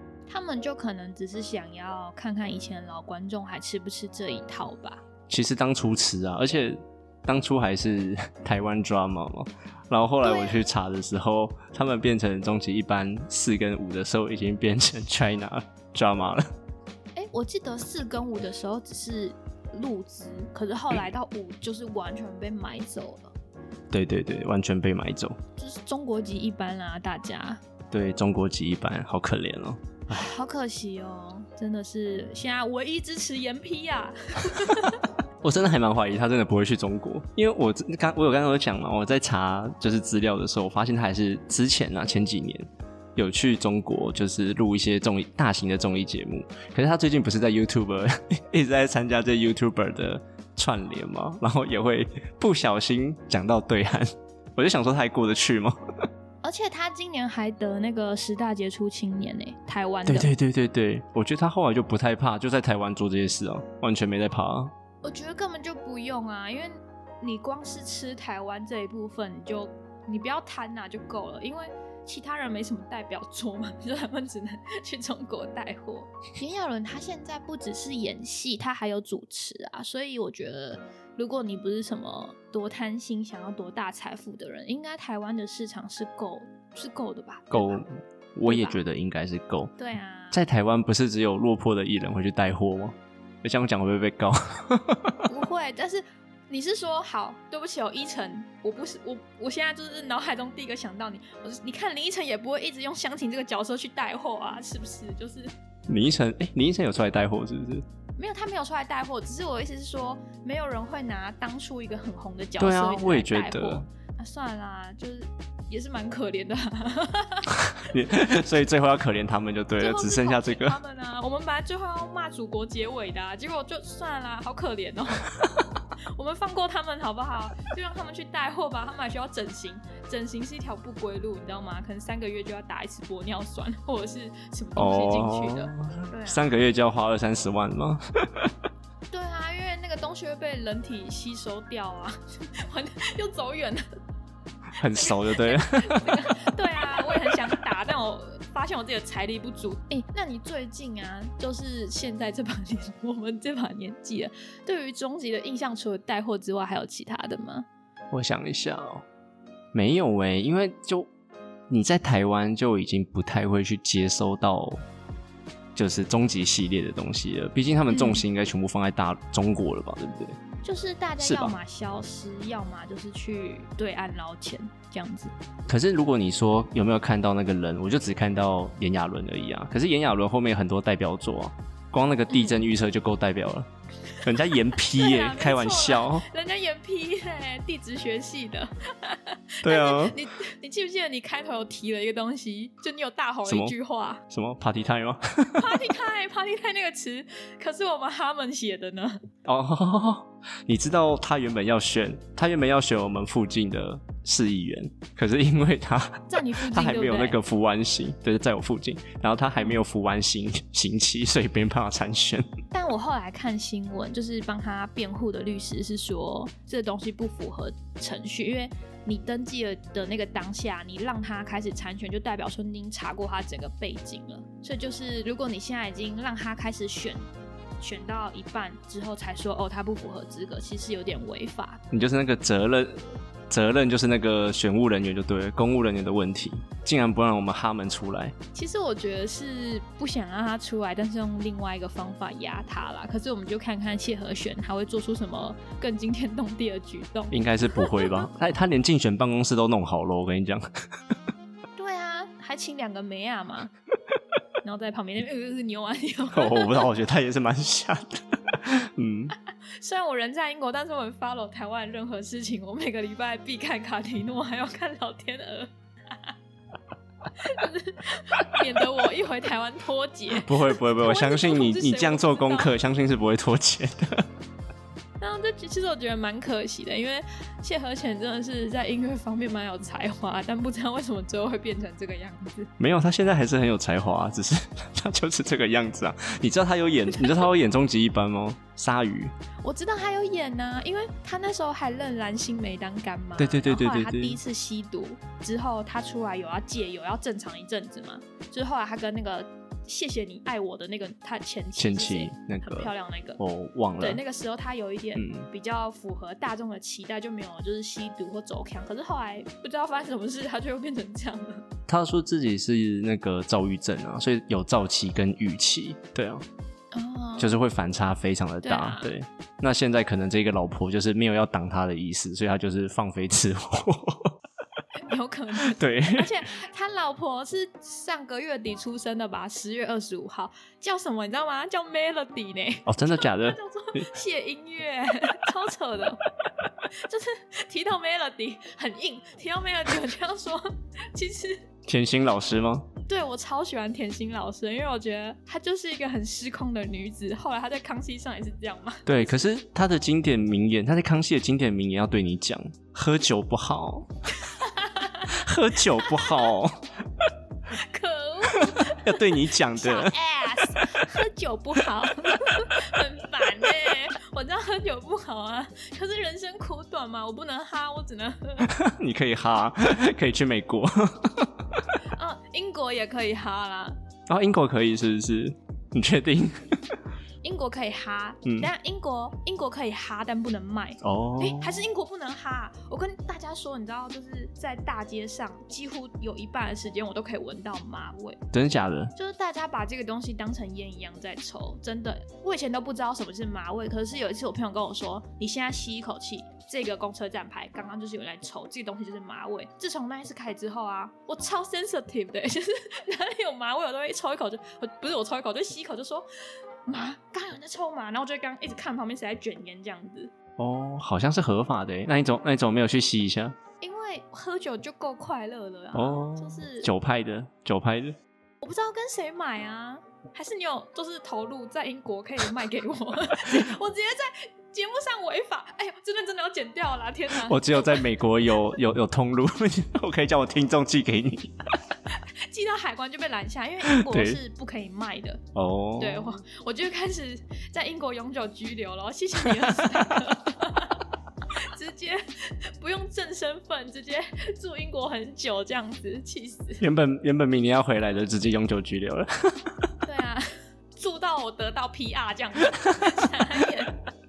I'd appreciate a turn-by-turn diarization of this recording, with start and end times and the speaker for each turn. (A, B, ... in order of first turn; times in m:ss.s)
0:00.3-0:05.0 A
0:05.3-0:16.5 B
0:10.2-0:10.6 A
0:17.2-0:23.3 A
0:23.9-0:25.4 B
0:25.6-0:27.6 A
0:27.9-0:30.3 B
0:30.1-0:35.1 A
0:35.4-0:55.8 B
0:56.4-1:00.3 A
1:00.1-1:04.7 B
1:05.0-1:27.8 A
1:27.5-1:29.7 B
1:28.5-1:28.8 A
1:29.8-1:30.4 A
1:30.3-1:35.3 B
1:35.3-1:45.5 A
1:45.9-1:47.9 B
1:48.2-1:57.7 A
1:52.6-1:53.9 B
1:57.6-2:00.8 B
1:59.8-2:05.4 A
2:06.1-2:16.5 A
2:14.8-2:18.5 B
2:19.1-2:23.8 A
2:24.8-2:27.6 B
2:24.9-2:37.7 A
2:38.1-2:39.0 B
2:39.7-2:41.1 B
2:41.7-2:44.8 B
2:45.8-2:50.4 B
2:47.9-2:48.2 A
2:50.6-2:55.3 A
2:51.2-2:51.6 B
2:55.7-3:03.7 B
3:04.2-3:06.3 B
3:04.8-3:14.2 A
3:09.6-3:10.2 B
3:13.5-3:13.8 B
3:14.3-3:15.8 B
3:15.6-3:19.2 A
3:19.4-3:32.5 B
3:26.3-3:27.4 A
3:32.7-3:47.2 A
3:47.8-3:51.8 A
3:51.9-3:58.4 B
3:58.5-4:08.3 A
4:07.3-4:10.7 B
4:11.8-4:13.7 A
4:14.6-4:16.9 A
4:16.3-4:19.3 B
4:19.8-4:26.3 A
4:27.4-4:32.7 A
4:30.3-4:34.3 B
4:35.2-4:42.7 A
4:42.8-4:49.3 B
4:49.6-5:03.4 A
4:53.4-4:54.4 B
5:01.8-5:04.2 B
5:04.0-5:11.7 A
5:05.2-5:05.5 B
5:11.9-5:16.4 B
5:16.9-5:17.6 A
5:17.4-5:24.4 B
5:18.6-5:19.1 A
5:25.1-5:36.2 A
5:25.6-5:26.4 B
5:32.9-5:34.1 B
5:36.9-5:41.7 A
5:41.9-5:42.9 B
5:43.1-5:49.4 A
5:49.1-5:54.1 B
5:54.4-5:55.4 A
5:55.2-5:56.9 B
5:55.9-5:56.5 A
5:57.7-6:08.7 A
5:58.5-6:00.2 B
6:08.6-6:11.9 B
6:12.1-6:14.0 A
6:14.3-6:17.0 B
6:17.4-6:28.4 A
6:18.4-6:18.7 B
6:21.0-6:21.9 B
6:28.5-6:29.1 B
6:29.2-6:46.3 A
6:46.9-6:50.3 A
6:50.6-6:53.6 B
6:53.8-6:56.9 A
6:55.9-6:58.2 B
6:58.6-7:08.1 A
7:07.3-7:11.6 B
7:12.1-7:15.4 A
7:13.8-7:14.4 B
7:15.6-7:16.3 B
7:16.0-7:21.0 A
7:19.5-7:20.1 B
7:21.6-7:26.8 A
7:26.8-7:29.9 B
7:30.0-7:34.0 A
7:32.8-7:33.3 B